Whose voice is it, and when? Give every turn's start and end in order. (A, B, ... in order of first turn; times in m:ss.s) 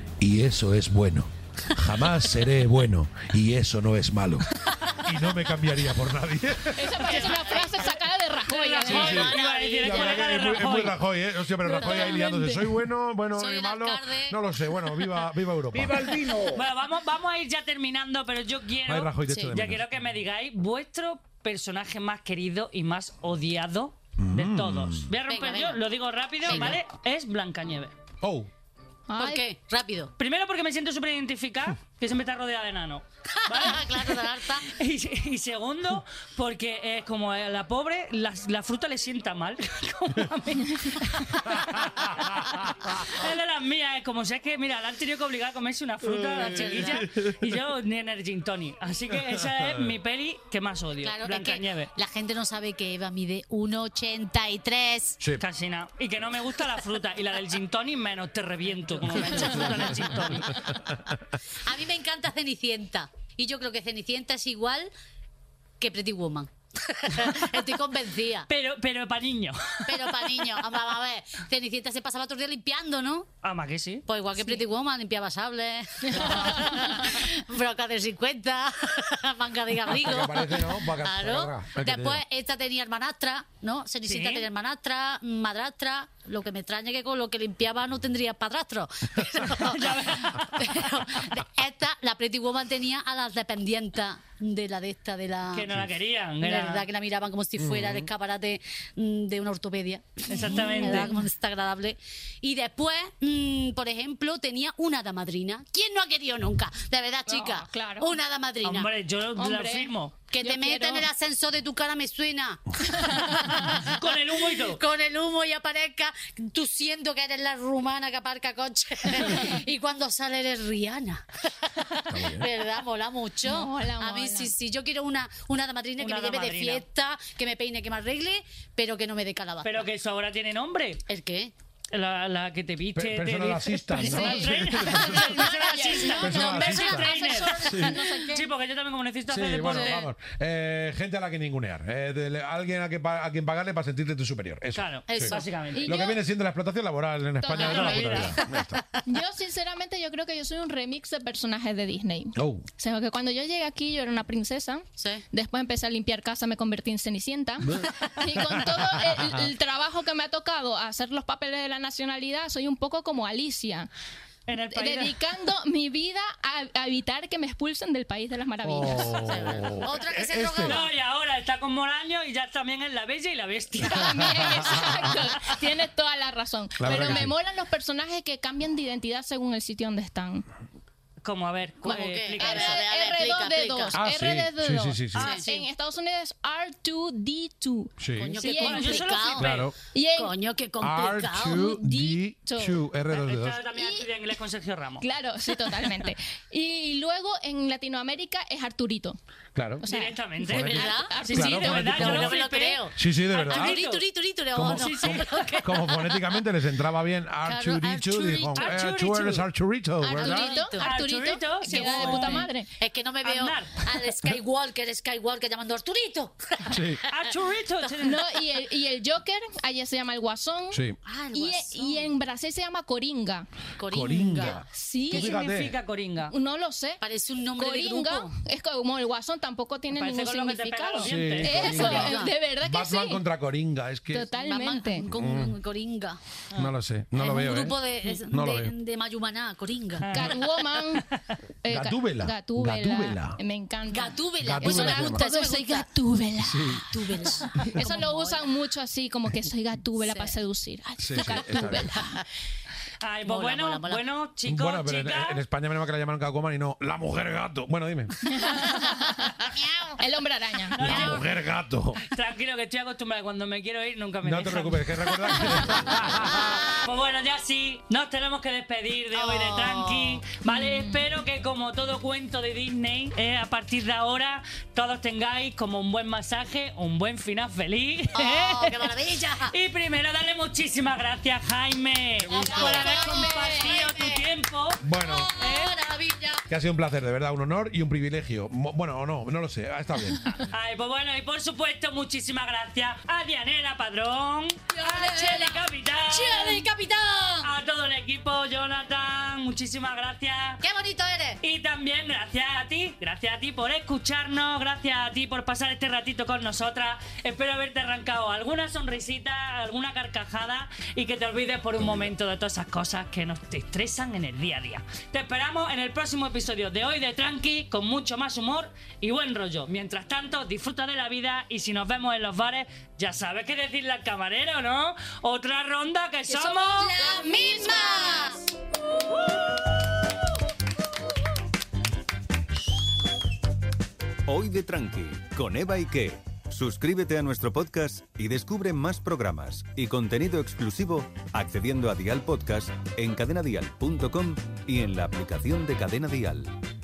0:00.2-0:07.2 A
0:04.6-0:05.1 B
0:06.8-0:09.3 C
0:07.0-0:10.5 B
0:08.5-0:11.0 D
0:08.9-0:16.6 A
0:11.6-0:12.8 C
0:11.8-0:12.2 B
0:13.3-0:14.4 B
0:15.8-0:27.9 D
0:18.9-0:19.8 A
0:24.2-0:25.1 A
0:25.3-0:25.8 B
0:26.4-0:26.8 B
0:26.5-0:26.8 A
0:28.2-0:28.5 A
0:29.1-0:29.4 C
0:29.2-0:30.1 B
0:30.2-0:51.9 D
0:33.3-0:34.7 B
0:41.4-0:43.2 A
0:46.0-0:47.6 A
0:46.3-0:47.1 B
0:49.1-0:49.9 A
0:51.0-0:55.2 B
0:55.4-1:00.6 D
0:59.2-1:00.2 B
0:59.2-1:00.8 A
1:01.6-1:04.9 B
1:05.8-1:08.5 B
1:08.5-1:10.5 D
1:09.9-1:13.3 B
1:13.4-1:14.0 D
1:14.1-1:35.7 B
1:16.1-1:17.0 C
1:19.9-1:22.2 A
1:24.1-1:24.5 D
1:29.4-1:30.5 D
1:35.5-1:36.9 D
1:36.4-1:48.9 B
1:37.6-1:38.1 A
1:40.3-1:41.1 D
1:40.3-1:41.3 C
1:47.3-1:48.2 C
1:48.6-1:50.1 D
1:49.4-1:51.1 C
1:50.3-2:09.8 B
1:52.9-1:53.4 C
1:53.8-1:54.8 D
2:02.1-2:02.5 A
2:03.4-2:04.5 C
2:06.0-2:06.8 D
2:09.6-2:11.0 D
2:11.1-2:11.5 B
2:11.9-2:20.1 D
2:13.0-2:15.5 A
2:14.0-2:18.4 C
2:14.9-2:18.4 B
2:16.1-2:18.0 A
2:19.3-2:28.8 A
2:19.6-2:20.1 B
2:24.8-2:26.0 D
2:25.1-2:25.5 B
2:25.7-2:26.2 C
2:27.5-2:28.0 C
2:27.5-2:28.4 D
2:27.5-2:29.0 B
2:29.0-2:43.9 C
2:32.4-2:32.6 A
2:35.0-2:35.2 B
2:37.6-2:39.4 A
2:44.5-2:45.2 D
2:44.6-2:49.6 C
2:48.6-2:50.9 A
2:48.8-2:50.9 B
2:50.6-2:55.2 D
2:53.8-3:00.4 C
2:54.0-2:55.1 A
2:56.8-2:57.3 A
3:01.2-3:02.8 D
3:01.8-3:04.0 B
3:02.4-3:09.4 C
3:03.9-3:05.3 A
3:05.1-3:05.5 D
3:05.2-3:05.6 B
3:08.0-3:08.4 A
3:08.2-3:09.5 B
3:08.4-3:09.7 D
3:09.4-3:09.8 A
3:09.9-3:10.3 C
3:10.2-3:11.7 B
3:10.8-3:13.6 A
3:11.4-3:12.8 C
3:13.1-3:15.1 D
3:13.7-3:14.1 C
3:15.0-3:19.2 C
3:19.6-3:19.9 A
3:19.8-3:22.3 C
3:19.8-3:24.0 D
3:20.4-3:22.4 A
3:20.6-3:21.2 B
3:21.8-3:26.2 B
3:23.0-3:23.8 A
3:24.5-3:30.6 A
3:24.6-3:25.7 D
3:27.4-3:28.8 B
3:28.6-3:29.5 D
3:30.0-3:32.7 C
3:30.2-3:30.9 B
3:30.8-3:32.5 D
3:31.7-3:37.3 B
3:33.2-3:33.8 D
3:36.7-3:37.0 A
3:37.0-3:38.3 D
3:38.0-3:40.8 C
3:40.7-3:41.0 A
3:41.0-3:42.1 B
3:41.3-3:43.5 C
3:43.8-3:44.6 B
3:43.9-3:45.8 A
3:44.4-3:45.6 C
3:45.1-3:46.3 D
3:46.3-3:47.0 C
3:47.0-3:48.3 B
3:47.6-3:53.2 C
3:49.9-3:52.1 D
3:51.0-3:54.3 A
3:51.6-3:52.3 B
3:54.1-3:55.1 C
3:54.3-3:56.2 B
3:55.1-3:55.6 A
3:56.5-3:58.7 A
3:57.2-4:00.1 B
4:00.0-4:01.2 D
4:00.1-4:01.0 C
4:01.6-4:12.2 C
4:01.7-4:03.4 A
4:03.9-4:05.9 B
4:04.4-4:05.2 A
4:06.4-4:06.9 A
4:06.9-4:08.5 B
4:10.0-4:10.4 B
4:11.0-4:12.0 A
4:11.3-4:12.2 B
4:13.0-4:15.4 D
4:13.3-4:14.0 B
4:14.5-4:18.3 A
4:18.2-4:19.4 C
4:19.4-4:20.0 B
4:20.0-4:21.2 C
4:20.7-4:21.3 D
4:20.8-4:22.0 A
4:22.0-4:39.0 D
4:24.2-4:26.6 A
4:26.3-4:26.8 B
4:29.1-4:30.2 B
4:30.4-4:31.0 C
4:38.1-4:39.5 B
4:39.5-4:44.8 D
4:42.2-4:43.0 A
4:42.3-4:44.2 B
4:44.8-4:45.3 A
4:45.0-4:46.5 B
4:45.4-4:45.8 D
4:46.5-4:50.3 A
4:50.4-4:56.7 D
4:54.7-4:57.5 B
4:57.4-5:00.6 D
5:00.6-5:01.4 B
5:01.4-5:27.0 D
5:26.3-5:28.4 C
5:26.7-5:28.4 B
5:34.2-5:46.6 E